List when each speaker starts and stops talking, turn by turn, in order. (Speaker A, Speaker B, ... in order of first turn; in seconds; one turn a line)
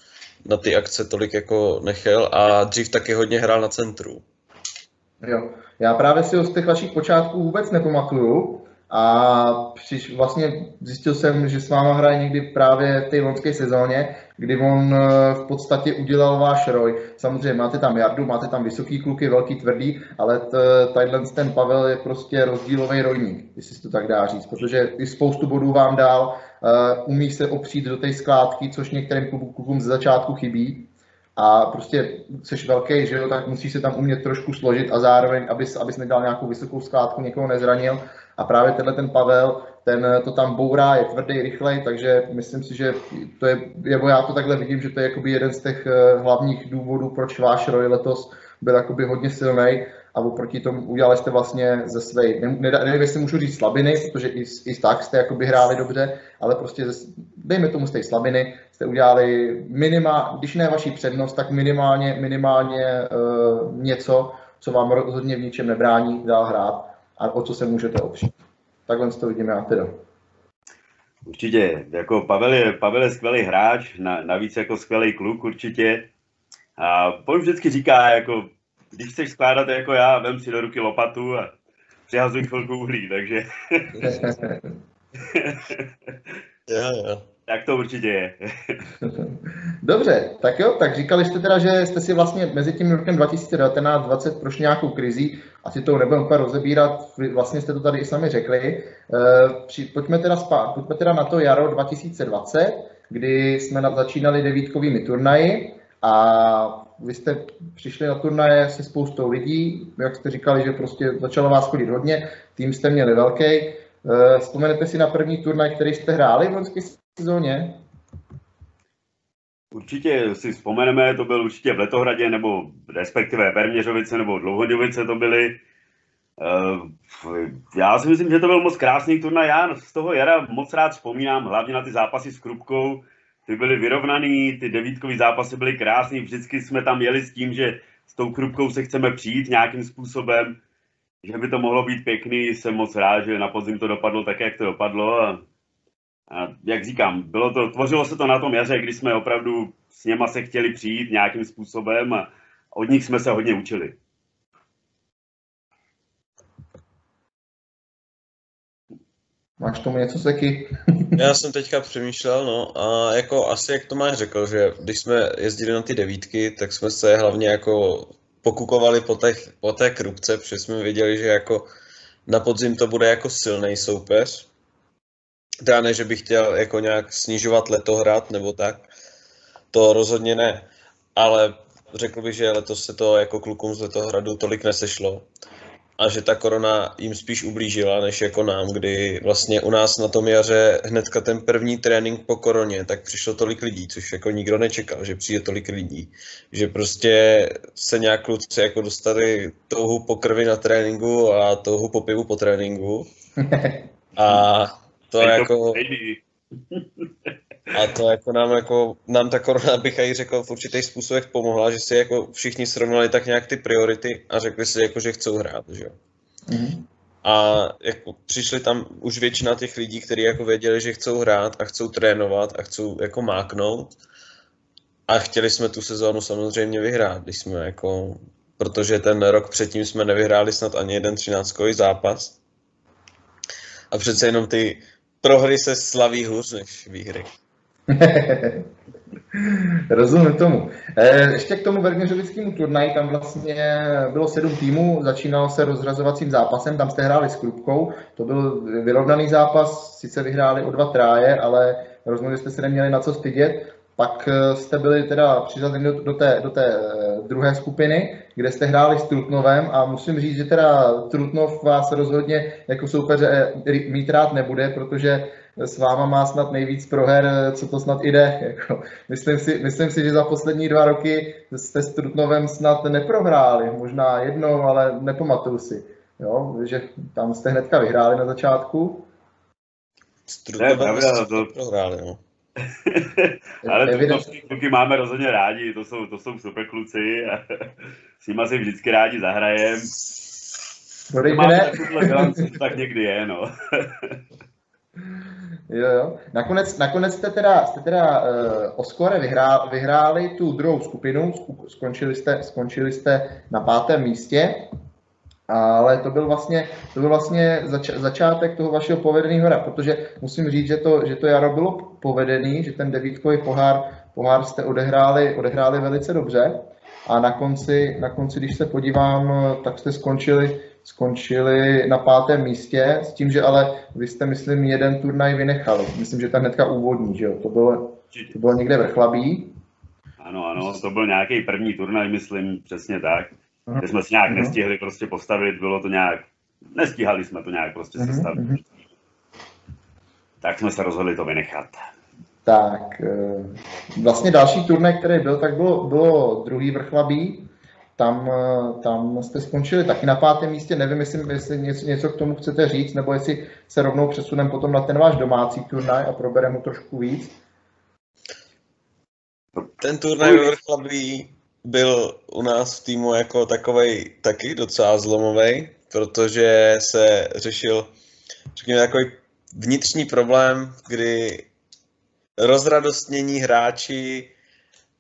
Speaker A: 0.4-4.2
Speaker B: 5.2-68.3
Speaker B: 68.9-70.0
Speaker C: 71.2-76.1
Speaker C: 76.8-81.5
Speaker C: 82.1-84.2
Speaker B: 84.0-84.7
Speaker C: 85.2-86.1
Speaker A: 86.7-87.2
Speaker C: 87.5-88.8
Speaker B: 89.0-117.8
Speaker C: 119.7-125.6
Speaker C: 126.4-140.6
Speaker C: 141.2-145.4
Speaker C: 146.3-153.9
Speaker B: 159.6-161.2
Speaker A: 161.2-171.7
Speaker A: 172.3-174.5
Speaker A: 175.6-178.9
Speaker A: 179.7-185.3
Speaker A: 186.0-203.1
Speaker B: 203.4-203.9
Speaker A: 204.2-205.8
Speaker C: 205.2-206.2
Speaker A: 207.7-215.9
Speaker B: 216.5-216.9
Speaker A: 217.2-223.9
Speaker A: 225.1-232.4
Speaker A: 233.9-237.3
Speaker B: 237.9-238.7
Speaker B: 239.4-279.1
Speaker A: 280.3-282.2
Speaker C: 280.6-281.5
Speaker C: 282.7-287.6
Speaker B: 283.6-284.3
Speaker C: 288.2-289.9
Speaker B: 291.1-292.4
Speaker C: 291.2-294.2
Speaker B: 295.7-304.7
Speaker B: 305.5-329.5
Speaker C: 330.2-338.6
Speaker B: 333.7-334.6
Speaker B: 338.0-338.6
Speaker C: 340.4-341.8
Speaker B: 342.4-357.4
Speaker A: 359.8-367.9
Speaker C: 360.2-360.5
Speaker A: 368.5-371.5
Speaker A: 372.4-374.3